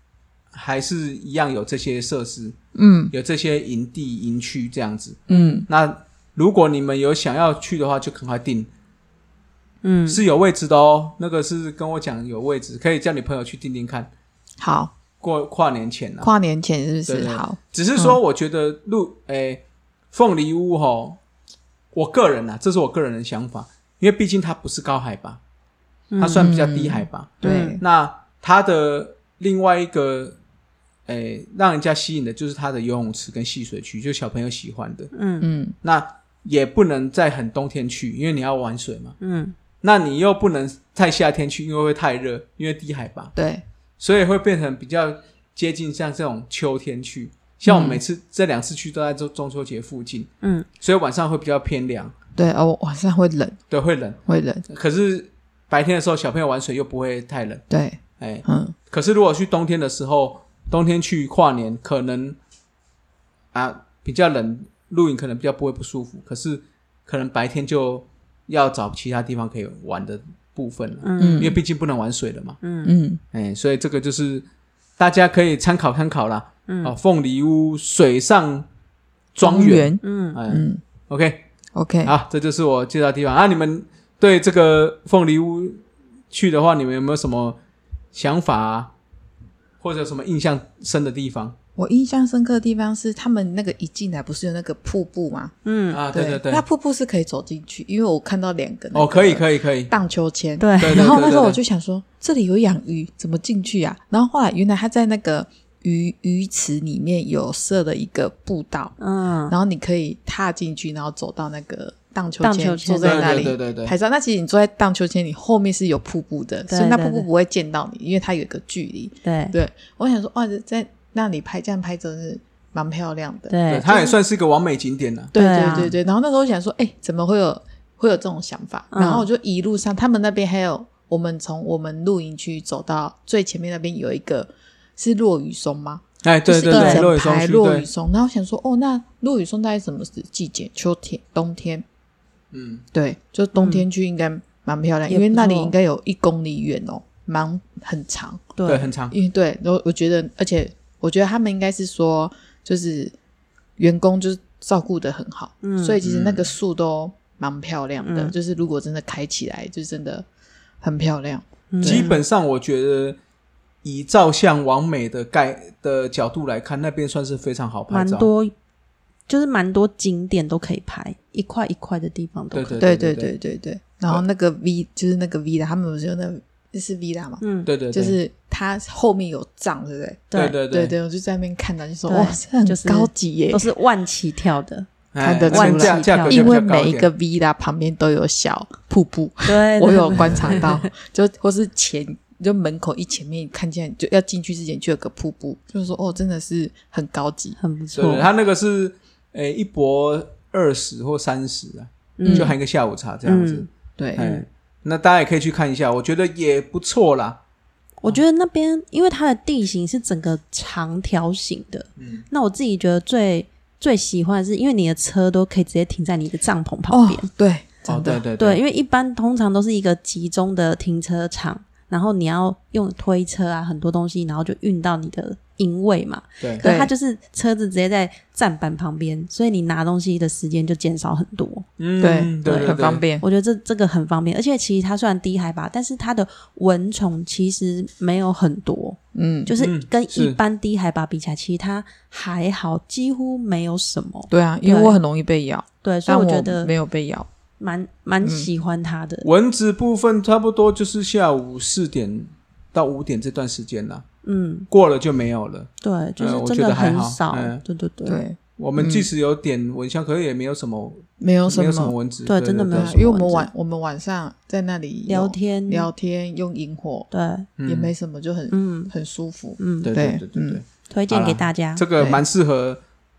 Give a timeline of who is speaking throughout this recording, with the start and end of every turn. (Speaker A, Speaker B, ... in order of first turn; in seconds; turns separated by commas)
Speaker A: 0.5-2.5, Speaker B: 2.7-3.1, Speaker A: 3.1-8.7, Speaker B: 5.3-5.7, Speaker C: 5.3-5.6, Speaker C: 9.8-10.2, Speaker A: 10.1-14.1, Speaker B: 14.6-14.9, Speaker A: 15.2-16.3, Speaker B: 16.2-18.2, Speaker A: 17.1-21.2, Speaker A: 21.9-25.4, Speaker C: 26.1-26.4, Speaker A: 26.2-30.4, Speaker B: 26.4-27.8, Speaker C: 27.4-27.7, Speaker A: 31.1-35.1, Speaker C: 35.1-35.5, Speaker B: 35.4-35.8, Speaker A: 35.8-39.1, Speaker C: 39.2-39.5, Speaker A: 39.8-43.3, Speaker B: 43.3-43.6, Speaker A: 44.0-52.1, Speaker B: 47.7-48.0, Speaker C: 50.4-50.7, Speaker B: 52.4-53.6, Speaker A: 53.7-57.6, Speaker B: 54.2-54.6, Speaker B: 57.7-58.7, Speaker A: 58.2-62.4, Speaker A: 63.5-72.6, Speaker C: 71.0-71.5, Speaker B: 71.2-71.6, Speaker C: 72.6-72.9, Speaker B: 72.8-73.2, Speaker A: 73.3-74.4, Speaker A: 75.0-78.7, Speaker C: 76.7-76.9, Speaker A: 79.3-81.5, Speaker B: 79.4-80.8, Speaker C: 80.0-80.4, Speaker B: 81.7-82.1, Speaker A: 82.0-87.6, Speaker A: 88.1-88.9, Speaker A: 89.8-91.5, Speaker B: 91.8-95.5, Speaker C: 95.6-96.0, Speaker A: 95.9-96.6, Speaker B: 96.1-108.9, Speaker A: 98.9-99.9, Speaker C: 100.6-101.4, Speaker A: 100.8-101.6, Speaker C: 109.0-109.5, Speaker B: 109.5-124.1, Speaker C: 112.4-113.4, Speaker A: 113.0-113.9, Speaker C: 116.7-117.3, Speaker C: 119.2-119.5, Speaker C: 123.5-124.1, Speaker A: 123.7-125.9, Speaker B: 125.3-141.8, Speaker C: 125.3-125.9, Speaker C: 128.9-129.3, Speaker A: 136.2-137.9, Speaker C: 136.7-137.1, Speaker A: 142.5-142.8, Speaker B: 142.9-148.5, Speaker C: 143.5-143.8, Speaker C: 145.1-145.7, Speaker C: 148.6-148.9, Speaker A: 148.7-149.2, Speaker B: 149.1-153.1, Speaker B: 153.8-160.2, Speaker C: 155.6-156.0, Speaker A: 156.0-156.5, Speaker C: 158.0-158.3, Speaker B: 160.8-162.1, Speaker C: 161.7-162.2, Speaker A: 161.8-163.2, Speaker A: 163.8-168.3, Speaker C: 167.9-168.5, Speaker C: 169.3-172.8, Speaker A: 172.5-173.3, Speaker B: 172.8-183.7, Speaker C: 177.4-177.7, Speaker A: 177.7-178.2, Speaker C: 180.3-180.6, Speaker A: 180.3-180.9, Speaker C: 182.1-184.9, Speaker A: 185.1-187.1, Speaker B: 185.2-197.6, Speaker C: 185.4-186.5, Speaker C: 189.4-190.8, Speaker A: 190.2-190.7, Speaker C: 197.6-198.3, Speaker A: 197.9-207.4, Speaker C: 202.2-202.6, Speaker B: 202.2-202.5, Speaker C: 203.2-203.7, Speaker B: 204.0-204.4, Speaker C: 208.0-217.3, Speaker A: 212.0-212.2, Speaker B: 216.9-218.2, Speaker A: 217.8-218.6, Speaker C: 218.4-231.6, Speaker A: 226.4-226.7, Speaker B: 226.6-226.9, Speaker A: 231.8-233.0, Speaker B: 232.0-233.2, Speaker C: 232.4-245.0, Speaker B: 239.1-239.5, Speaker A: 239.6-240.4, Speaker B: 244.3-247.3, Speaker C: 245.8-246.7, Speaker C: 247.6-249.3, Speaker B: 248.2-248.5, Speaker A: 249.2-254.0, Speaker C: 254.2-254.7, Speaker A: 254.7-257.6, Speaker C: 255.8-258.2, Speaker B: 258.0-259.1, Speaker A: 258.6-263.0, Speaker B: 261.2-261.9, Speaker C: 262.2-263.5, Speaker B: 262.7-267.1, Speaker C: 265.1-265.9, Speaker C: 267.1-267.5, Speaker A: 267.6-267.9, Speaker B: 267.6-270.6, Speaker C: 268.5-268.9, Speaker C: 269.6-269.9, Speaker A: 269.8-272.8, Speaker C: 270.9-271.8, Speaker B: 272.0-272.2